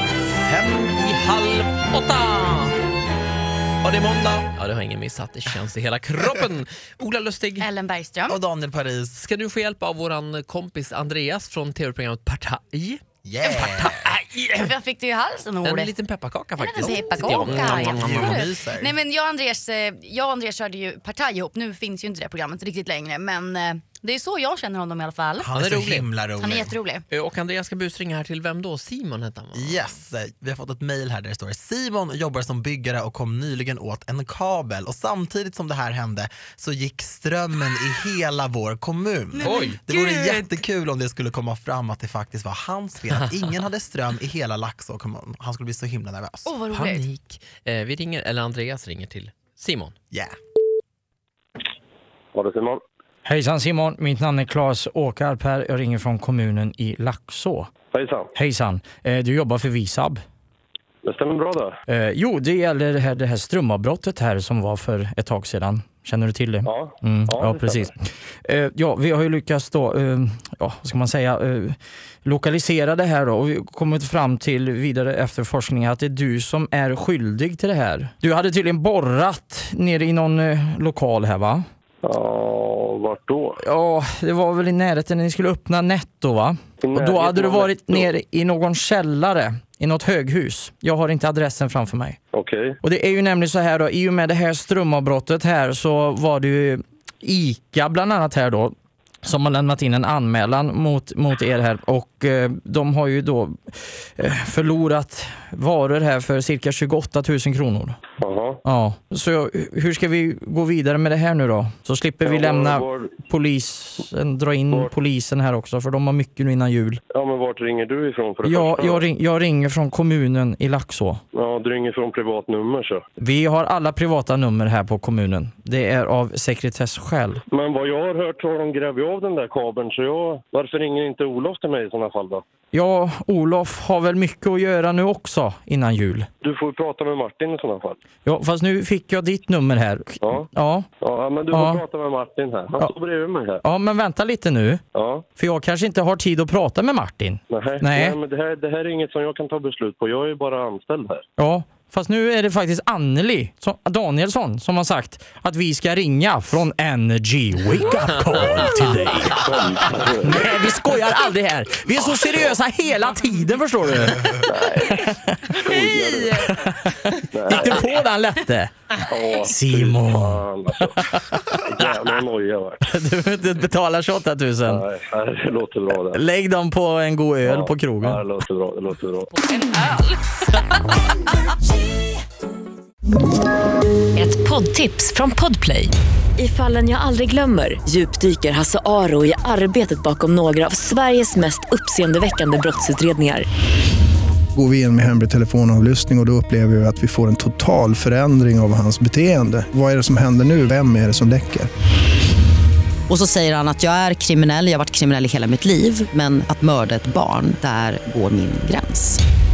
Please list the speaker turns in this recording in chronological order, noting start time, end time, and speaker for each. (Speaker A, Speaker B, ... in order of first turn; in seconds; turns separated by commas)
Speaker A: 0.3-2.7, Speaker A: 3.8-7.7, Speaker B: 7.6-8.4, Speaker C: 8.3-9.3, Speaker A: 9.2-14.8, Speaker C: 13.2-14.2, Speaker B: 14.6-15.9, Speaker A: 15.6-18.4, Speaker B: 16.6-25.5, Speaker C: 16.8-19.0, Speaker C: 25.4-26.8, Speaker A: 25.5-26.1, Speaker B: 26.3-27.0, Speaker A: 27.1-30.0, Speaker C: 29.5-46.6, Speaker A: 39.4-39.8, Speaker B: 46.5-47.0, Speaker A: 46.7-49.9, Speaker D: 52.3-52.8, Speaker E: 53.2-57.7, Speaker D: 57.9-58.3, Speaker E: 58.3-60.2, Speaker D: 61.0-61.7, Speaker E: 61.9-81.6, Speaker D: 66.6-67.9, Speaker D: 82.0-83.6, Speaker E: 83.6-92.2, Speaker D: 86.8-88.1, Speaker D: 92.3-92.8, Speaker E: 92.8-108.0, Speaker D: 108.2-108.6, Speaker E: 108.6-117.0, Speaker D: 112.2-113.1, Speaker D: 117.1-119.0, Speaker E: 118.4-121.2, Speaker D: 121.3-123.0, Speaker E: 123.2-127.4, Speaker D: 127.5-132.4, Speaker E: 132.7-136.3, Speaker D: 136.4-138.0, Speaker E: 138.2-140.9, Speaker D: 140.2-140.5, Speaker D: 141.0-143.6, Speaker E: 141.5-141.8, Speaker E: 143.6-144.8, Speaker D: 144.9-145.2, Speaker E: 145.4-148.2, Speaker D: 147.5-151.2, Speaker E: 151.4-168.7, Speaker D: 159.4-160.5, Speaker D: 164.4-166.5, Speaker D: 167.3-167.9, Speaker D: 169.1-171.0, Speaker E: 169.4-171.6, Speaker D: 171.6-172.8, Speaker E: 172.8-174.8, Speaker D: 174.7-176.2, Speaker E: 176.0-178.2, Speaker D: 177.4-179.3, Speaker F: 184.1-193.5, Speaker G: 194.5-201.7, Speaker H: 203.1-209.2